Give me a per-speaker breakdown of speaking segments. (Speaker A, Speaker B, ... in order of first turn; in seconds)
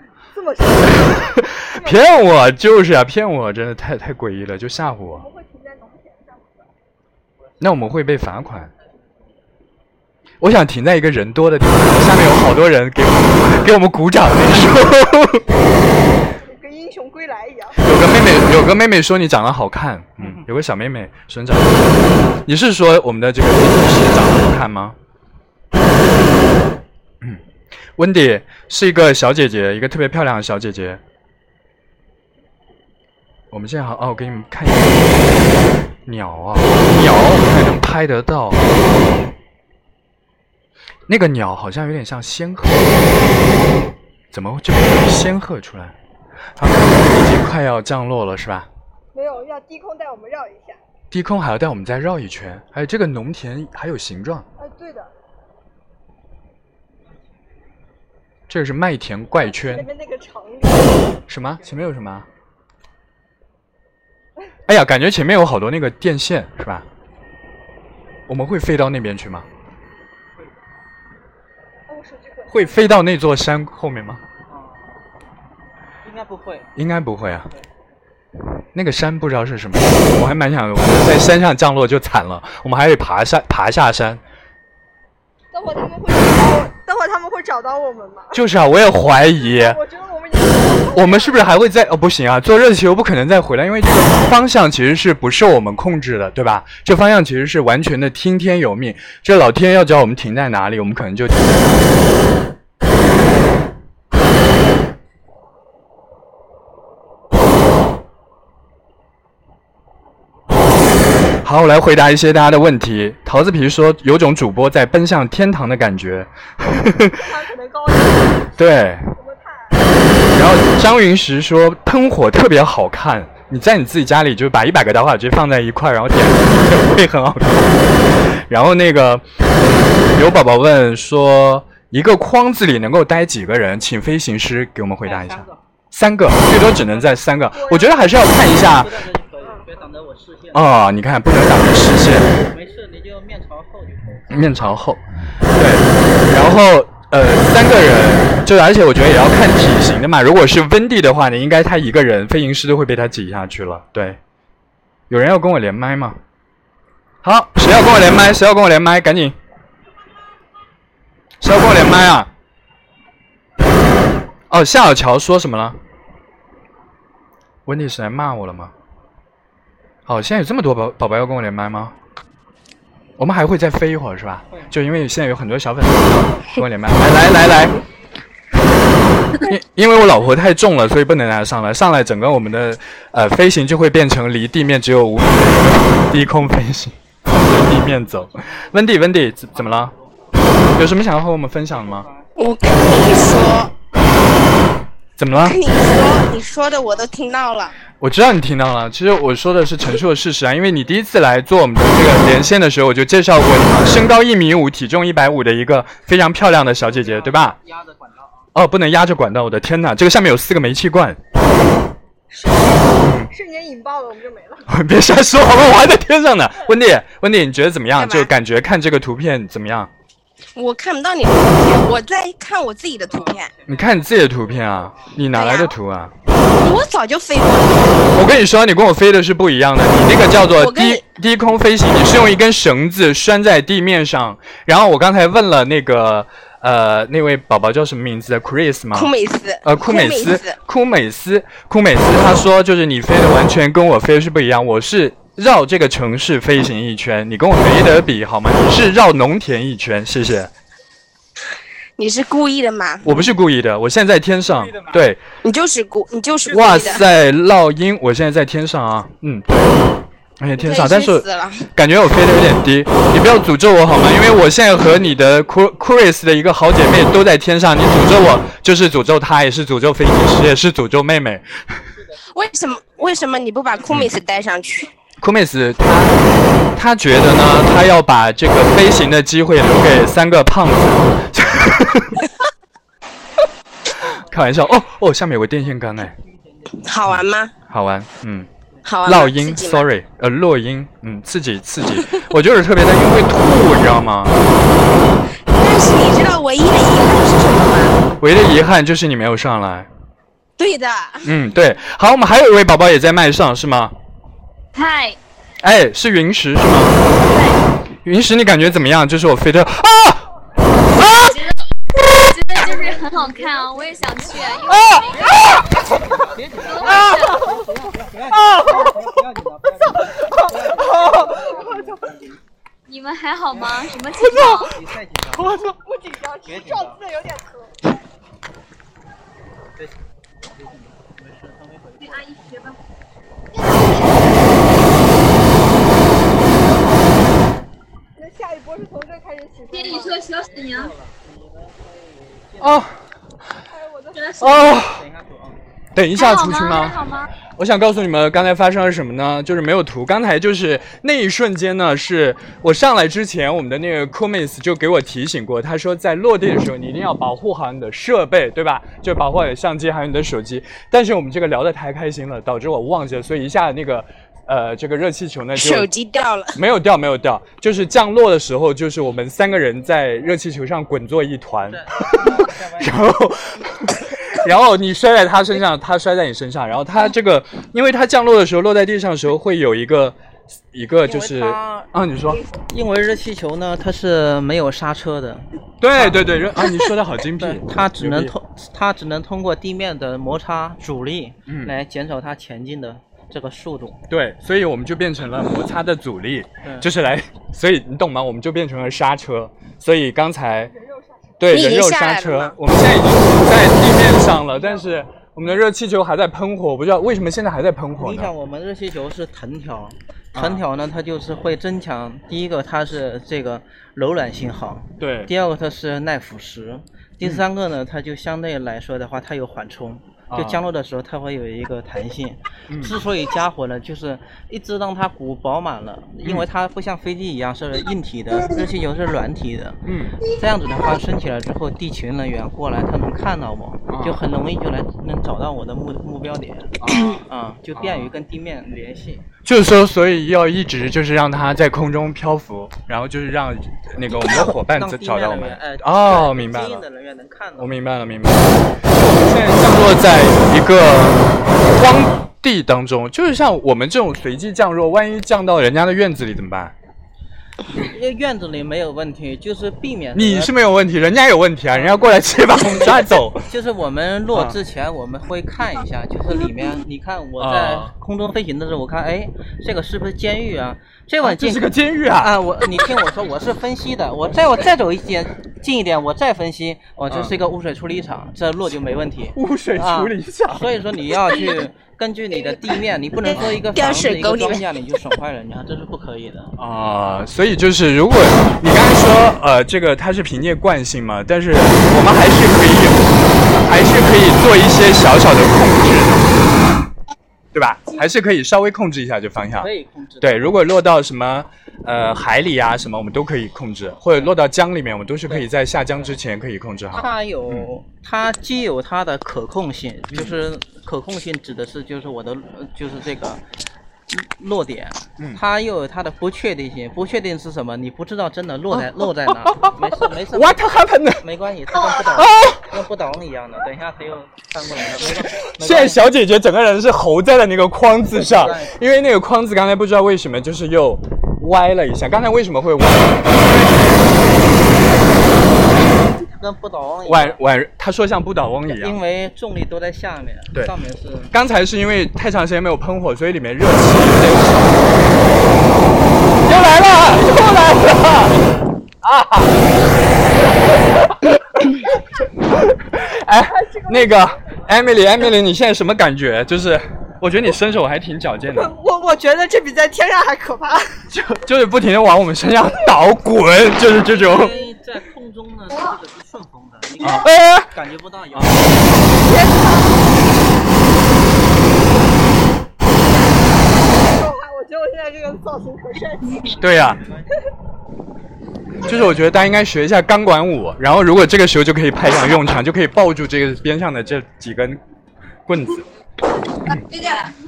Speaker A: 0.3-2.0, 5.1-6.7, 16.2-17.8, 49.1-50.8, 54.6-55.1, 59.4-61.1, 71.9-72.9, 85.5-88.4, 89.4-91.4, 117.1-118.5, 119.1-119.9, 137.5-138.1, 212.3-214.7, 320.2-321.6, 325.8-327.8, 338.2-340.3, 343.7-344.4, 400.8-401.3, 553.4-554.3, 558.5-561.0, 569.3-569.8, 573.9-576.5
Speaker B: 1.0-5.3, 7.6-8.7, 10.4-15.4, 17.8-25.0, 27.9-31.0, 33.5-38.8, 41.1-43.2, 44.3-45.9, 46.5-48.7, 51.1-54.5, 58.5-59.9, 61.3-62.3, 64.7-66.8, 68.3-69.5, 72.5-74.2, 76.8-77.5, 78.7-84.2, 88.3-89.8, 90.9-101.9, 111.4-117.3, 118.6-119.1, 120.3-139.0, 140.5-142.4, 144.3-145.0, 145.5-154.2, 155.1-156.2, 157.2-159.3, 161.4-162.3, 164.5-165.8, 167.7-168.7, 170.1-171.9, 173.2-177.8, 179.4-189.9, 190.7-192.1, 195.2-195.6, 198.0-207.6, 208.5-211.2, 213.0-213.3, 214.7-219.9, 223.7-226.1, 228.1-239.1, 239.6-250.5, 253.0-255.2, 256.4-259.9, 260.4-271.8, 273.9-274.1, 275.2-276.2, 276.7-282.2, 284.0-286.1, 287.0-288.5, 289.0-294.4, 298.2-299.9, 301.2-303.9, 305.6-307.1, 308.0-310.3, 310.9-311.4, 314.7-315.6, 318.3-318.9, 320.8-321.2, 324.2-324.7, 325.3-325.8, 342.6-343.0, 344.4-345.0, 345.9-347.0, 347.6-365.9, 366.5-380.2, 380.7-382.4, 385.8-388.3, 391.5-391.7, 394.1-400.7, 401.4-408.3, 410.3-410.6, 415.0-415.3, 420.3-420.6, 422.7-423.0, 429.9-430.2, 433.9-434.2, 436.8-437.2, 437.7-438.1, 439.4-446.8, 447.6-456.7, 460.1-463.5, 464.3-464.6, 467.4-467.9, 471.2-472.4, 477.1-477.3, 479.3-480.7, 483.3-483.6, 486.6-496.4, 497.5-507.7, 518.7-521.2, 521.9-522.7, 525.2-534.1, 537.0-539.0, 541.3-545.0, 546.4-549.6, 551.2-551.9, 552.5-558.7, 561.1-564.6, 567.0-567.7, 568.3-568.8, 576.6-577.0, 578.8-584.8, 585.5-585.9
Speaker C: 7.6-8.0, 8.7-9.2, 74.5-75.0, 76.0-76.7, 135.0-135.6, 136.7-137.2, 138.4-140.7, 142.4-144.7, 187.9-188.9, 189.5-190.2, 191.7-192.4, 196.4-197.2, 206.7-208.4, 223.0-225.2, 271.9-274.9, 284.0-284.8, 285.6-286.9, 314.0-314.3, 315.1-322.4, 323.5-325.5, 326.4-327.0, 329.8-332.6, 340.2-342.9, 344.6-345.6, 371.7-373.1, 381.0-381.9, 382.5-386.2, 387.4-394.0, 396.6-396.9, 408.0-439.2, 444.1-447.7, 457.7-460.5, 461.7-486.6, 499.6-500.5, 505.2-506.1, 506.9-513.4, 514.1-520.6, 521.2-526.0, 528.1-528.8, 535.7-537.4, 538.7-541.3, 564.0-569.2, 576.4-577.3
Speaker D: 192.4-193.7, 195.4-197.7, 217.9-218.3, 220.6-223.5, 225.3-225.8, 226.6-228.1, 230.6-231.0, 238.9-240.6, 252.0-253.2, 255.4-257.0, 260.6-261.7, 272.3-274.9, 286.8-287.5, 288.8-289.9, 295.5-298.0, 300.6-301.3, 365.5-366.6, 401.5-402.6, 483.3-484.6
Speaker E: 304.7-305.2, 307.1-307.6, 311.1-315.5, 316.6-317.5, 322.9-324.8, 332.0-332.8, 333.7-334.1, 339.7-340.9, 344.2-344.5, 346.1-347.3, 586.7-587.3